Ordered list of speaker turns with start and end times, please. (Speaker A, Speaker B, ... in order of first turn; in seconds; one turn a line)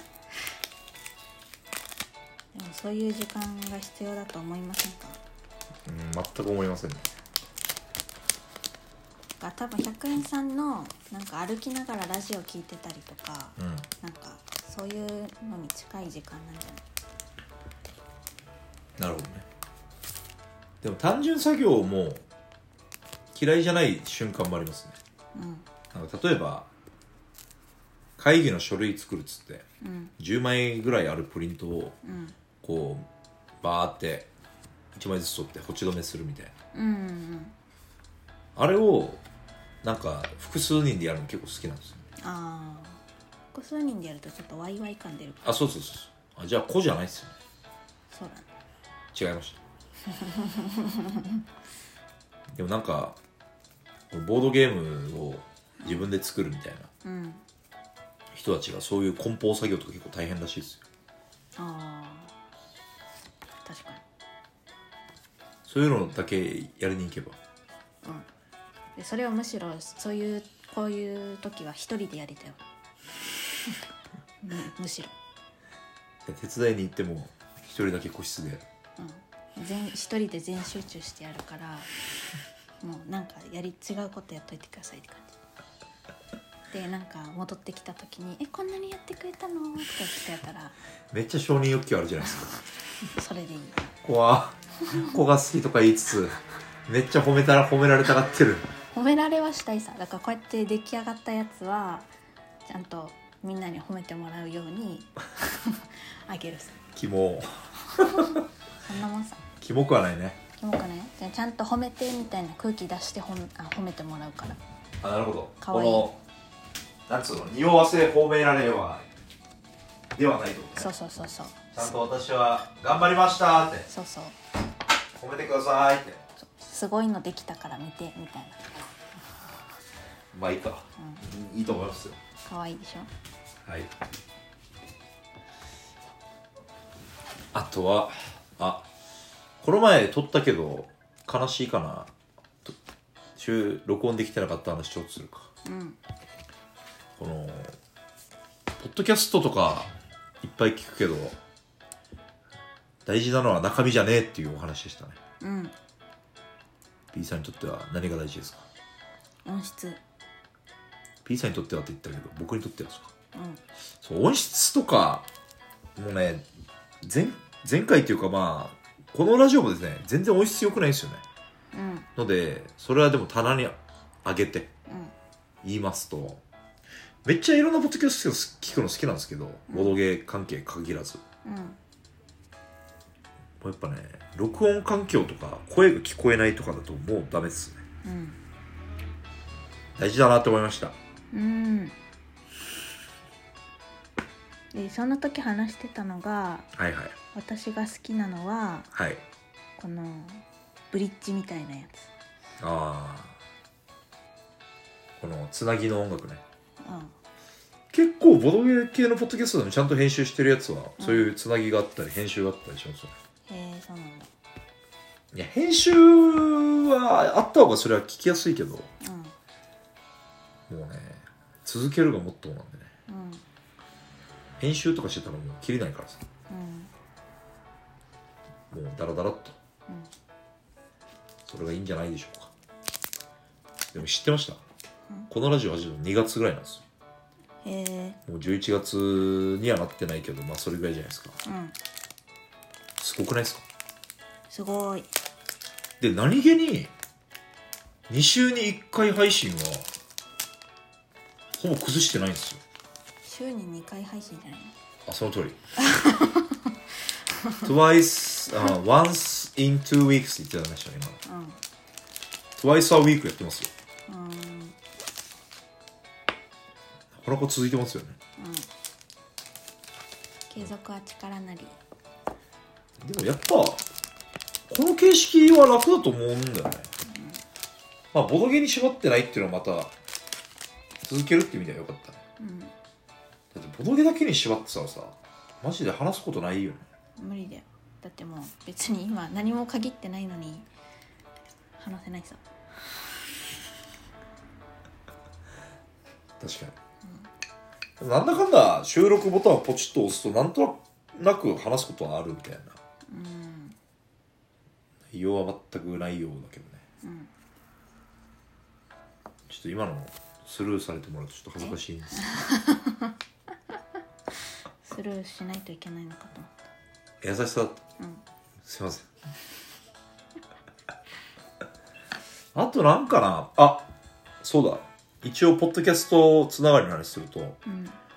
Speaker A: 2.5-5.2
Speaker B: 5.8-7.1
Speaker A: 9.4-16.8
Speaker B: 13.6-13.9
Speaker B: 19.0-19.4
Speaker B: 20.8-22.2
Speaker B: 23.3-25.0
Speaker A: 25.3-25.6
Speaker B: 25.9-26.7
Speaker B: 28.2-29.6
Speaker A: 29.8-30.1
Speaker B: 30.2-32.0
Speaker A: 32.0-32.4
Speaker B: 32.6-33.1
Speaker B: 33.6-34.3
Speaker B: 34.9-36.5
Speaker A: 36.7-37.5
Speaker B: 38.5-39.2
Speaker B: 39.8-42.0
Speaker A: 42.2-43.0
Speaker A: 43.5-45.4
Speaker B: 45.4-47.4
Speaker A: 48.1-48.5
Speaker B: 49.1-49.6
Speaker A: 50.1-51.4
Speaker B: 52.5-53.2
Speaker B: 54.1-56.9
Speaker A: 55.8-56.1
Speaker A: 57.0-57.4
Speaker B: 58.3-60.8
Speaker A: 61.5-62.3
Speaker A: 63.6-64.0
Speaker B: 65.6-67.4
Speaker A: 68.0-68.3
Speaker A: 69.0-72.6
Speaker A: 74.4-75.1
Speaker B: 76.2-78.7
Speaker A: 79.0-81.9
Speaker A: 82.8-85.3
Speaker A: 86.7-90.8
Speaker B: 91.1-92.6
Speaker A: 93.0-93.9
Speaker B: 94.0-98.7
Speaker A: 98.9-102.1
Speaker A: 102.7-106.8
Speaker B: 106.9-108.4
Speaker A: 108.8-109.4
Speaker B: 109.6-110.4
Speaker A: 110.6-114.6
Speaker B: 115.0-116.2
Speaker A: 115.6-116.1
Speaker B: 117.1-119.0
Speaker B: 120.2-120.9
Speaker A: 120.8-121.7
Speaker B: 121.7-123.9
Speaker A: 123.9-124.4
Speaker B: 125.1-126.2
Speaker A: 126.4-128.9
Speaker B: 130.3-132.2
Speaker A: 131.0-131.2
Speaker A: 132.4-133.1
Speaker B: 133.6-133.9
Speaker B: 137.5-138.9
Speaker B: 139.6-142.1
Speaker B: 143.3-145.5
Speaker A: 145.6-146.0
Speaker B: 147.2-147.8
Speaker B: 148.8-149.9
Speaker B: 150.4-151.4
Speaker B: 153.0-155.2
Speaker A: 155.4-155.7
Speaker B: 157.1-158.7
Speaker A: 159.4-160.0
Speaker B: 161.2-163.1
Speaker A: 163.3-163.6
Speaker B: 164.0-165.3
Speaker B: 165.9-166.4
Speaker B: 167.0-171.2
Speaker A: 171.7-172.1
Speaker B: 172.2-174.7
Speaker A: 174.9-175.1
Speaker B: 175.6-176.4
Speaker B: 177.2-181.2
Speaker A: 179.7-180.0
Speaker A: 181.4-181.8
Speaker B: 183.6-187.8
Speaker A: 188.0-188.4
Speaker B: 189.9-190.9
Speaker A: 191.3-192.0
Speaker A: 194.7-196.7
Speaker B: 196.7-197.1
Speaker A: 197.3-198.9
Speaker B: 198.9-199.2
Speaker A: 199.8-202.1
Speaker B: 202.6-203.4
Speaker B: 205.2-206.4
Speaker A: 206.8-207.1
Speaker B: 207.9-213.1
Speaker A: 211.0-211.3
Speaker A: 213.5-214.3
Speaker B: 215.3-218.9
Speaker A: 219.0-219.3
Speaker B: 220.7-222.9
Speaker A: 223.1-223.4
Speaker B: 224.6-226.2
Speaker A: 226.5-226.9
Speaker B: 228.7-229.6
Speaker B: 231.4-232.5
Speaker B: 233.9-234.6
Speaker B: 235.3-236.8
Speaker A: 237.6-238.2
Speaker B: 238.2-241.4
Speaker A: 241.4-241.8
Speaker B: 243.0-243.6
Speaker A: 244.5-245.1
Speaker B: 246.0-246.9
Speaker B: 248.1-249.9
Speaker B: 251.6-252.6
Speaker A: 253.2-254.7
Speaker B: 255.1-255.6
Speaker A: 255.8-256.7
Speaker A: 257.4-257.7
Speaker B: 257.6-261.2
Speaker A: 261.2-261.6
Speaker B: 262.6-263.7
Speaker A: 264.1-264.8
Speaker B: 267.1-268.2
Speaker A: 268.4-268.7
Speaker A: 270.5-271.8
Speaker B: 273.0-273.9
Speaker B: 274.7-276.9
Speaker A: 277.1-277.4
Speaker B: 278.1-279.9
Speaker B: 281.0-282.2
Speaker A: 282.4-282.7
Speaker B: 283.5-286.9
Speaker A: 287.2-290.7
Speaker A: 291.8-292.4
Speaker B: 296.4-296.7
Speaker A: 297.0-297.3
Speaker B: 298.0-302.8
Speaker A: 303.1-303.8
Speaker B: 305.1-306.8
Speaker A: 307.0-307.3
Speaker B: 309.5-312.3
Speaker A: 311.6-313.1
Speaker A: 314.8-316.5
Speaker B: 317.2-317.8
Speaker B: 318.6-319.1
Speaker B: 322.5-323.9
Speaker B: 324.4-327.6
Speaker A: 327.6-328.0